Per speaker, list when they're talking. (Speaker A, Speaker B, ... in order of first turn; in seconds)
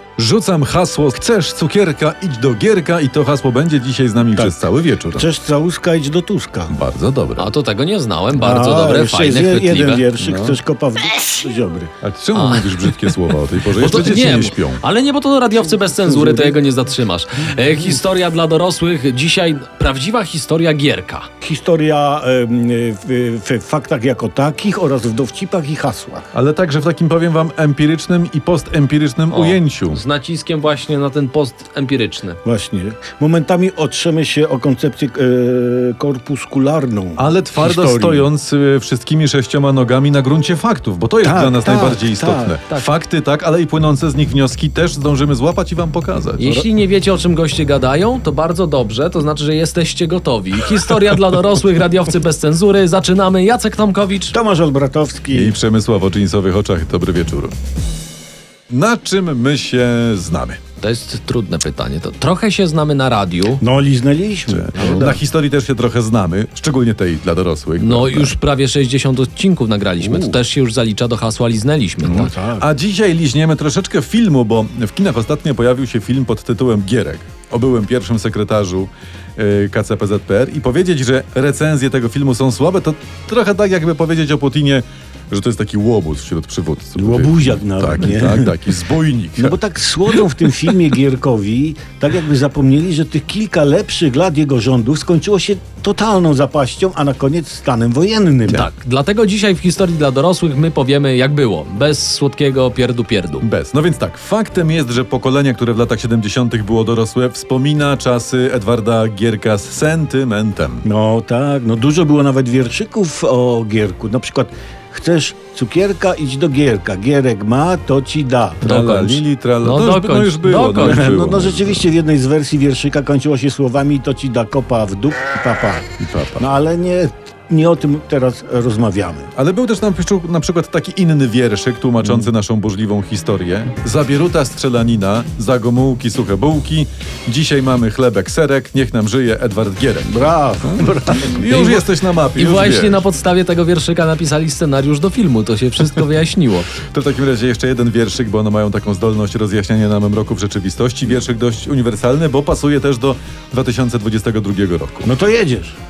Speaker A: 0.2-5.3, 6.7-7.5, 10.2-10.6, 12.0-14.8, 26.3-30.0, 37.2-46.5, 55.3-57.5, 58.7-60.6, 64.5-68.4, 70.0-70.4, 72.0-89.6, 103.4-110.8, 118.6-121.9, 126.0-126.5, 129.3-143.1, 146.8-155.1
Speaker B: 4.3-6.7, 8.3-11.9, 15.8-16.6, 21.4-26.3, 32.4-38.3, 41.2-42.5, 54.3-55.6, 63.6-65.2, 72.0-72.7, 87.0-88.6, 89.4-98.7, 110.8-118.6, 120.8-125.9, 126.4-129.3, 132.0-132.3, 140.1-141.4, 155.0-155.8
Speaker C: 7.4-10.0, 12.3-21.3, 29.3-32.4, 46.4-54.3, 60.8-63.6, 64.8-65.1, 67.8-72.3, 98.5-103.5, 118.6-121.2, 141.4-146.7